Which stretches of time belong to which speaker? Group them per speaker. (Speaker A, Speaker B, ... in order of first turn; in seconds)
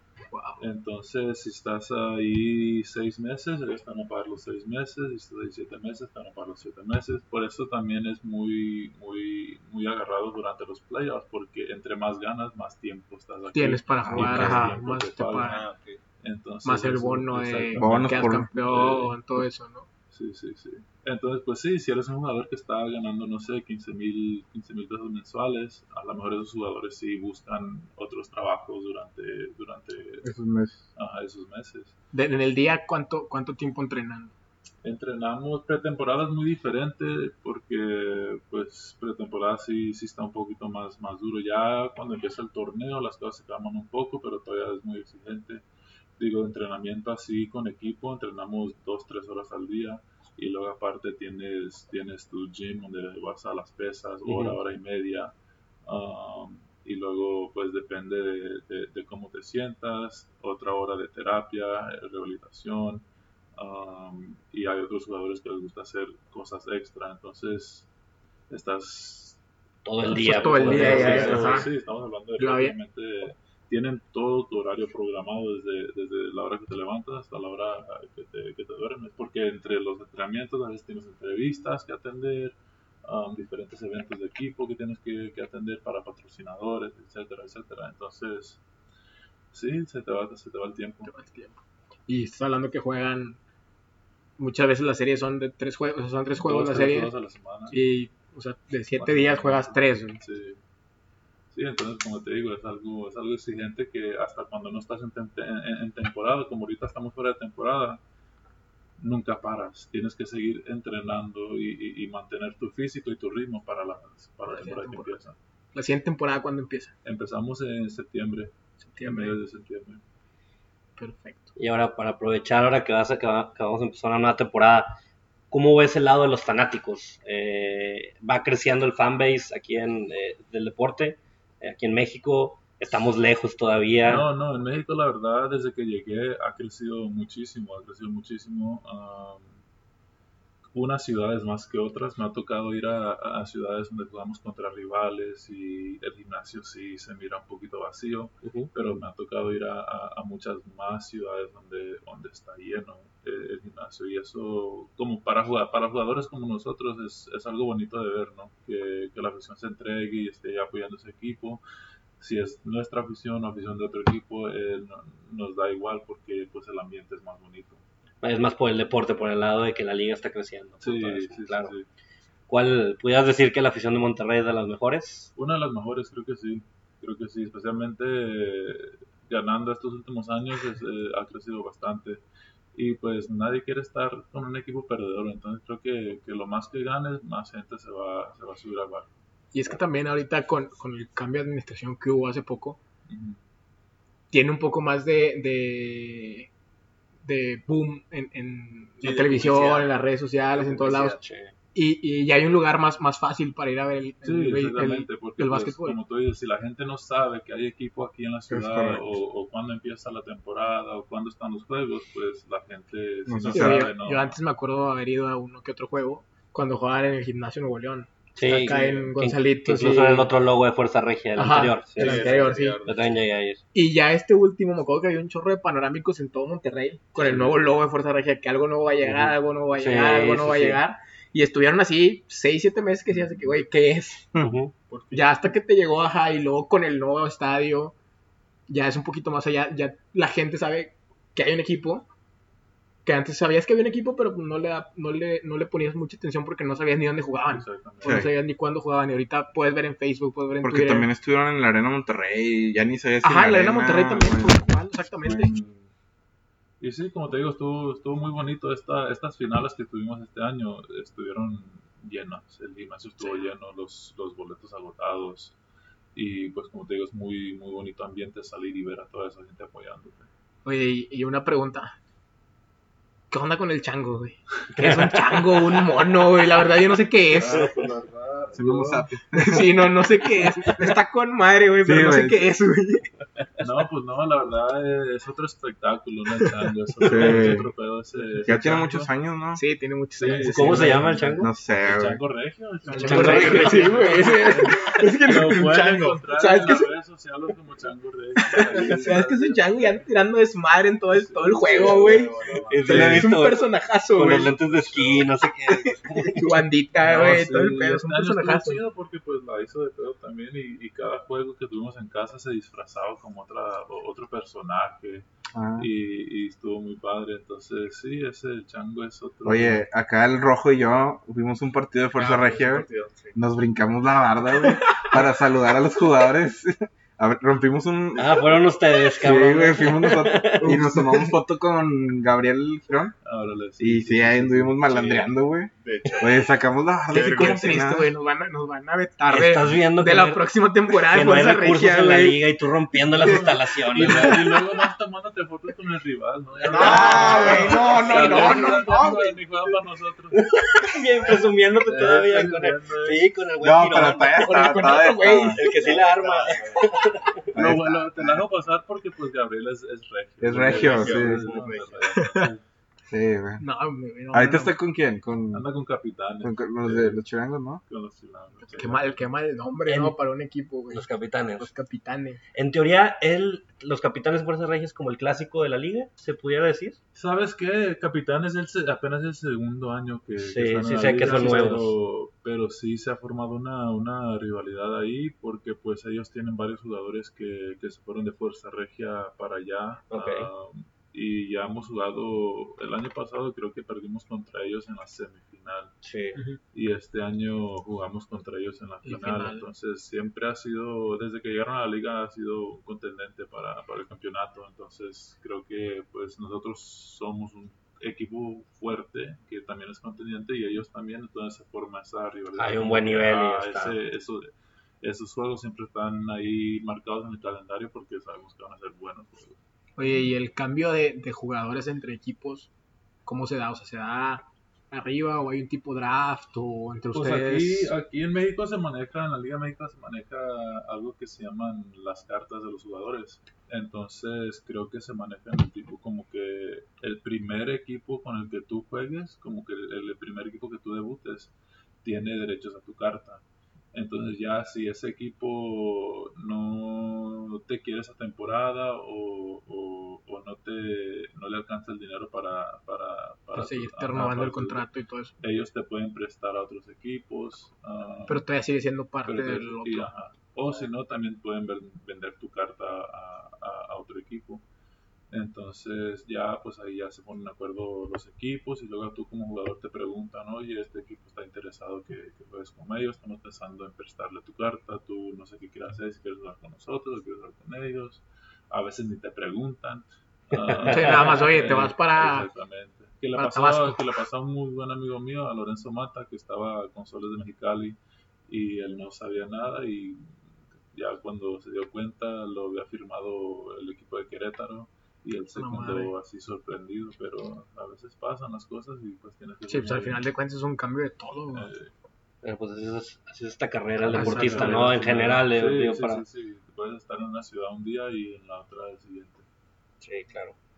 Speaker A: 0.3-0.6, 13.5-15.6, 16.6-19.9, 32.1-34.3, 70.0-71.7, 72.4-72.8, 91.0-93.4, 94.4-97.1, 97.7-100.2, 114.5-115.1, 115.7-116.9, 118.8-119.4, 121.0-121.5, 189.5-192.8, 194.3-196.5, 197.2-201.2, 201.7-206.0, 213.5-220.3, 221.3-222.8, 223.7-234.3, 235.1-237.9, 238.7-242.1, 243.0-251.1, 253.2-255.5, 263.2-263.5, 270.6-271.9, 273.3-277.7, 279.4-283.1, 289.6-291.1, 292.9-296.9, 298.5-304.5, 306.2-308.8, 330.6-331.2, 337.1-342.4, 343.0-344.5, 346.6-349.3, 354.3-355.7, 362.1-362.5, 363.6-364.8, 368.6-372.4, 381.2-381.9, 396.3-396.6, 399.0-399.7, 420.0-422.7, 423.2-427.9, 453.5-455.3, 458.3-460.1, 480.8-482.5, 483.3-484.1, 495.5-496.1, 499.7-501.7, 504.1-504.9
Speaker B: 0.6-15.6, 16.2-19.1, 20.1-30.3, 30.9-31.9, 34.8-45.6, 46.2-55.3, 55.9-63.0, 63.6-67.9, 68.5-69.4, 70.0-88.6, 89.5-91.1, 96.3-97.8, 99.0-100.6, 101.5-108.0, 109.0-115.4, 117.0-120.0, 134.1-139.6, 140.7-161.6, 162.2-167.8, 170.8-171.9, 175.3-182.2, 182.7-189.1, 193.1-193.4, 204.2-214.4, 247.5-248.3, 255.3-255.9, 256.8-265.6, 266.1-270.3, 277.3-279.1, 283.6-289.1, 290.2-300.0, 301.1-303.3, 304.6-305.2, 307.0-319.8, 333.2-335.3, 343.9-350.9, 351.8-353.3, 357.5-362.6, 365.5-367.2, 367.8-369.2, 377.1-395.9, 396.7-414.5, 415.0-419.6, 427.1-443.4, 443.9-454.9, 455.4-458.4, 459.2-464.6, 465.3-490.4, 490.9-500.2, 501.5-501.9, 504.0-509.4
Speaker C: 14.2-14.7, 17.8-18.5, 30.2-30.8, 208.5-209.1, 213.3-213.9, 248.0-248.3, 250.6-254.7, 255.2-255.6, 278.5-279.8, 281.8-282.5, 287.0-287.7, 288.4-289.6, 291.4-292.2, 302.9-303.3, 315.5-315.9, 319.4-328.6, 329.2-333.1, 333.8-335.7, 336.2-338.1, 346.7-349.2, 353.6-355.6, 357.5-358.4, 360.4-361.5, 363.1-363.6, 364.3-365.6, 366.4-367.8
Speaker D: 14.2-14.7, 15.4-16.0, 199.0-199.9, 200.5-201.2, 221.9-223.2, 227.3-227.6, 234.9-235.3, 293.4-294.2, 295.3-296.2, 298.6-299.1, 301.5-303.0, 322.1-323.4, 335.8-336.6, 337.1-337.8, 346.8-348.0, 355.5-357.8, 360.5-362.4
Speaker E: 54.2-54.6, 69.8-71.7, 121.6-125.0, 125.5-134.3, 148.4-148.7, 168.2-171.7, 172.5-175.3, 201.2-201.5, 218.3-223.6, 229.0-230.8, 234.4-234.7, 274.8-275.6, 290.3-291.5, 292.9-294.0, 302.7-306.6, 328.2-330.8, 339.3-340.5, 341.0-344.6, 346.9-348.8, 350.4-354.9, 355.5-357.4, 369.9-370.1, 370.9-371.7, 372.5-377.0, 380.4-381.9, 390.1-390.5, 396.0-396.4, 412.5-414.0, 502.4-506.2, 510.0-510.6